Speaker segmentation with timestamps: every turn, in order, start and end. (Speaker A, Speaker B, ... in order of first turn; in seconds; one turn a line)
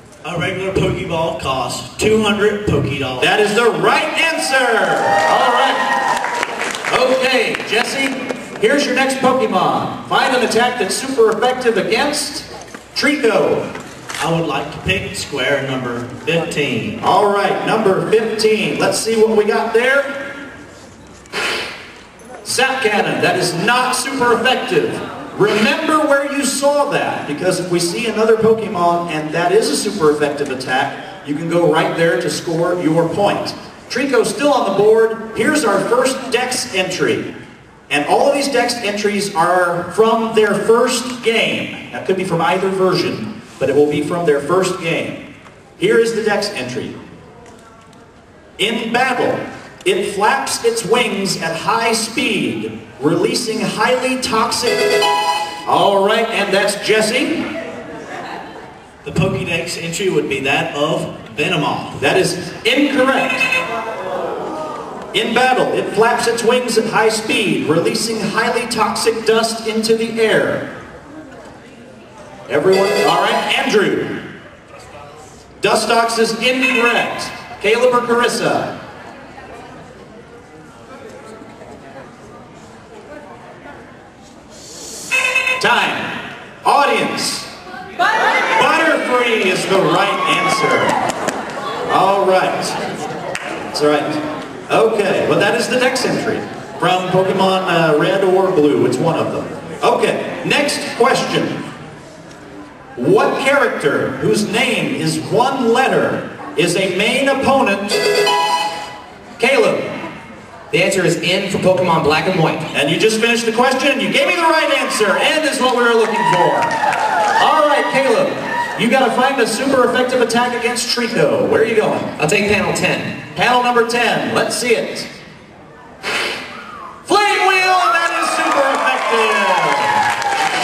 Speaker A: 0.2-3.3
Speaker B: 3.2-5.9
Speaker B: 6.9-13.7
Speaker A: 14.2-17.0
Speaker B: 17.0-20.3
Speaker B: 22.4-37.3
Speaker B: 37.9-45.2
Speaker B: 45.8-47.0
Speaker B: 48.6-54.9
Speaker B: 55.6-57.5
Speaker A: 59.0-62.0
Speaker B: 62.0-63.5
Speaker B: 65.1-70.7
Speaker B: 72.5-74.2
Speaker B: 75.6-78.8
Speaker B: 85.6-87.5
Speaker B: 88.5-91.0
Speaker B: 91.9-92.8
Speaker B: 93.7-101.6
Speaker B: 103.0-108.0
Speaker B: 109.4-109.9
Speaker C: 110.7-112.7
Speaker B: 112.7-116.7
Speaker B: 117.4-122.1
Speaker C: 122.2-123.2
Speaker B: 123.3-125.1
Speaker B: 127.0-130.0